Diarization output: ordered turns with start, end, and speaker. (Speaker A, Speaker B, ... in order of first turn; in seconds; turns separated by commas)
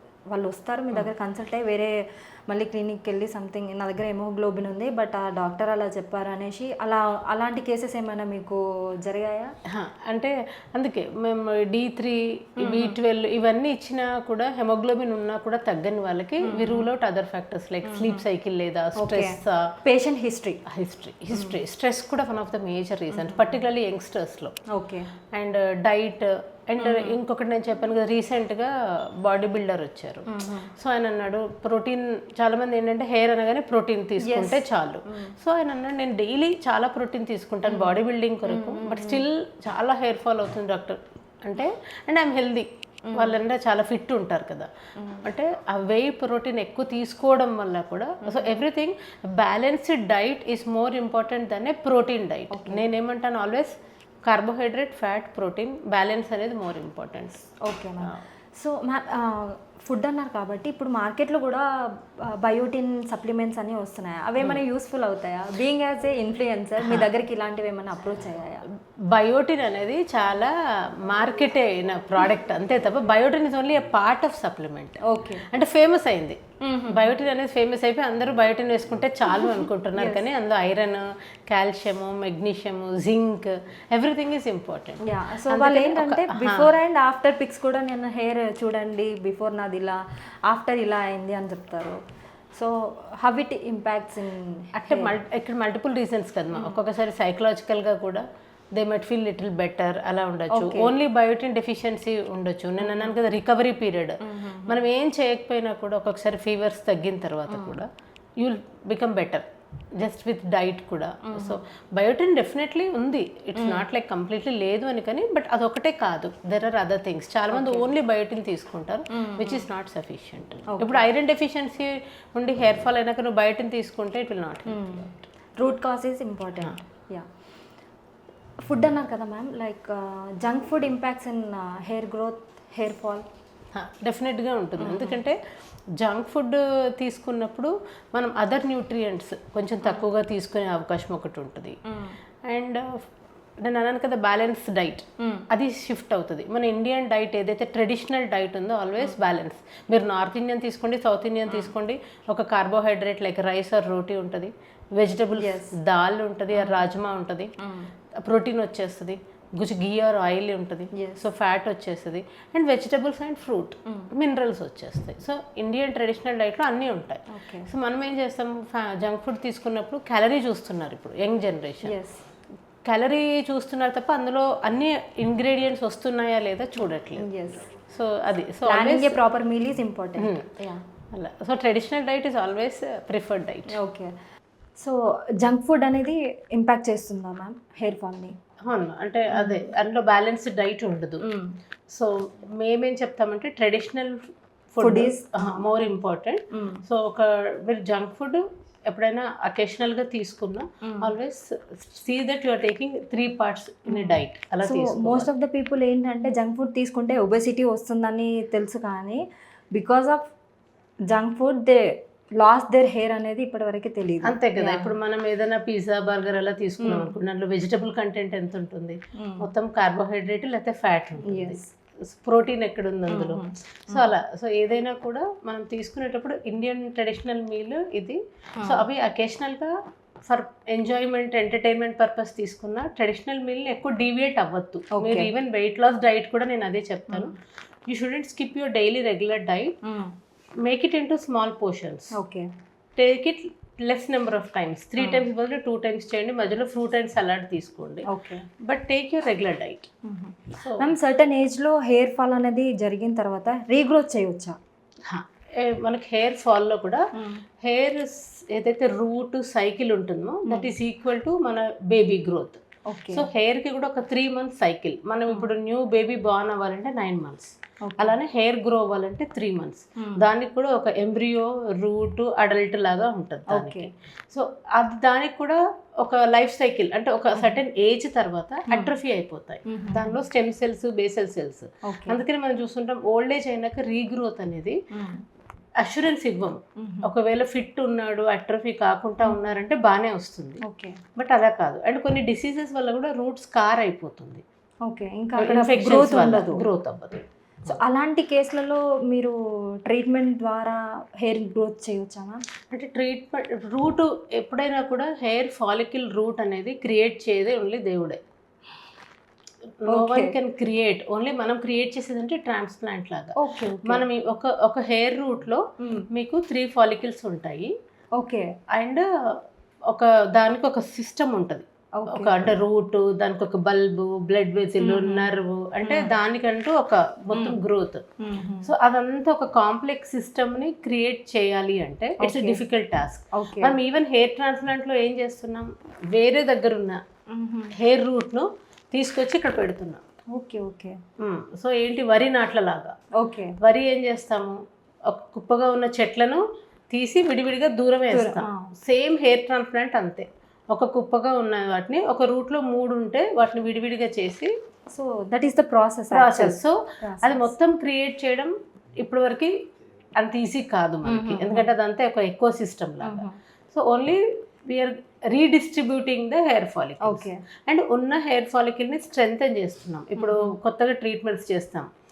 Speaker A: 0.3-1.9, Speaker A: 2.5-9.5, Speaker B: 9.7-19.7, Speaker A: 12.6-13.0, Speaker A: 16.4-16.9, Speaker A: 17.8-18.2, Speaker A: 19.0-20.6, Speaker B: 20.7-24.5, Speaker A: 21.3-21.6, Speaker A: 23.1-23.6, Speaker A: 24.7-25.1, Speaker B: 25.3-28.7, Speaker A: 26.8-27.2, Speaker B: 29.2-30.2, Speaker A: 30.3-30.7, Speaker B: 30.8-44.7, Speaker A: 34.2-35.3, Speaker A: 37.7-39.2, Speaker A: 43.1-43.4, Speaker A: 45.0-45.3, Speaker B: 45.2-53.7, Speaker A: 48.2-48.5, Speaker A: 52.5-52.8, Speaker B: 54.2-57.5, Speaker A: 57.6-68.6, Speaker B: 66.8-67.1, Speaker B: 69.1-70.5, Speaker B: 71.0-86.7, Speaker A: 75.0-75.4, Speaker A: 76.6-77.1, Speaker A: 79.3-80.2, Speaker A: 85.0-92.0, Speaker A: 92.5-95.1, Speaker B: 94.8-98.2, Speaker B: 98.8-107.9, Speaker A: 100.5-100.9, Speaker A: 102.8-103.1, Speaker A: 104.2-104.8, Speaker A: 107.5-107.8, Speaker B: 108.4-109.4, Speaker B: 110.0-125.2, Speaker A: 111.3-111.6, Speaker A: 113.5-113.8, Speaker A: 117.5-117.9, Speaker A: 119.1-119.7, Speaker A: 120.7-121.0, Speaker A: 124.7-127.3, Speaker A: 128.7-133.2, Speaker B: 133.7-135.4, Speaker A: 134.8-135.2, Speaker B: 136.0-141.8, Speaker A: 141.9-142.2, Speaker B: 142.5-143.1, Speaker B: 143.6-157.5, Speaker A: 145.2-145.4, Speaker A: 151.5-151.7, Speaker A: 155.4-155.8, Speaker A: 156.5-156.9, Speaker A: 157.6-157.9, Speaker B: 158.2-171.9, Speaker A: 160.9-161.2, Speaker A: 167.3-167.7, Speaker A: 171.8-172.2, Speaker B: 172.8-177.2, Speaker A: 177.2-177.7, Speaker B: 177.9-179.2, Speaker A: 178.7-180.8, Speaker B: 180.2-180.5, Speaker B: 181.1-183.7, Speaker A: 183.7-184.1, Speaker A: 184.8-188.3, Speaker B: 188.7-191.2, Speaker A: 189.3-189.7, Speaker A: 191.2-191.5, Speaker B: 191.9-194.2, Speaker B: 194.7-205.3, Speaker A: 194.8-195.4, Speaker A: 196.5-196.8, Speaker A: 200.8-201.1, Speaker A: 203.9-209.2, Speaker A: 209.7-210.3, Speaker A: 211.1-211.9, Speaker A: 212.4-214.9, Speaker B: 214.2-229.7, Speaker A: 216.8-217.1, Speaker A: 219.2-219.5, Speaker A: 221.2-221.7, Speaker A: 223.1-224.1, Speaker B: 230.3-237.3, Speaker A: 234.9-235.3, Speaker A: 237.1-237.3, Speaker B: 237.9-239.7, Speaker A: 239.8-240.1, Speaker B: 240.6-242.1, Speaker A: 242.1-242.5, Speaker B: 243.0-248.1, Speaker A: 245.0-245.2, Speaker A: 248.1-248.4, Speaker B: 248.7-249.9, Speaker A: 250.1-254.6, Speaker B: 250.6-250.9, Speaker B: 255.1-257.0, Speaker A: 257.1-257.4, Speaker B: 257.6-284.8, Speaker A: 260.4-260.7, Speaker A: 262.9-263.3, Speaker A: 267.8-268.1, Speaker A: 273.5-273.9, Speaker A: 279.7-280.2, Speaker A: 281.9-282.2, Speaker A: 284.9-285.2, Speaker B: 285.8-290.6, Speaker A: 286.8-287.1, Speaker A: 290.6-291.0, Speaker B: 291.1-294.4, Speaker A: 294.9-296.6, Speaker B: 295.4-297.8, Speaker A: 297.7-302.4, Speaker B: 302.7-308.2, Speaker B: 309.8-313.3, Speaker A: 309.9-310.4, Speaker A: 313.4-314.0, Speaker B: 313.9-317.7, Speaker A: 318.2-318.5, Speaker B: 318.7-319.0, Speaker B: 319.9-328.0, Speaker A: 322.0-322.6, Speaker A: 324.8-326.1, Speaker A: 327.3-327.6, Speaker A: 328.2-328.7, Speaker B: 328.6-337.0, Speaker A: 332.2-332.6, Speaker A: 333.3-333.8, Speaker A: 337.3-337.7, Speaker B: 337.8-340.0, Speaker A: 340.3-341.0, Speaker B: 341.2-342.9, Speaker A: 343.2-343.6, Speaker B: 343.6-354.5, Speaker A: 348.1-348.7, Speaker A: 354.9-357.5, Speaker B: 356.1-359.5, Speaker B: 360.2-371.9, Speaker A: 361.1-361.7, Speaker A: 363.0-363.4, Speaker A: 367.0-367.4, Speaker A: 370.2-370.5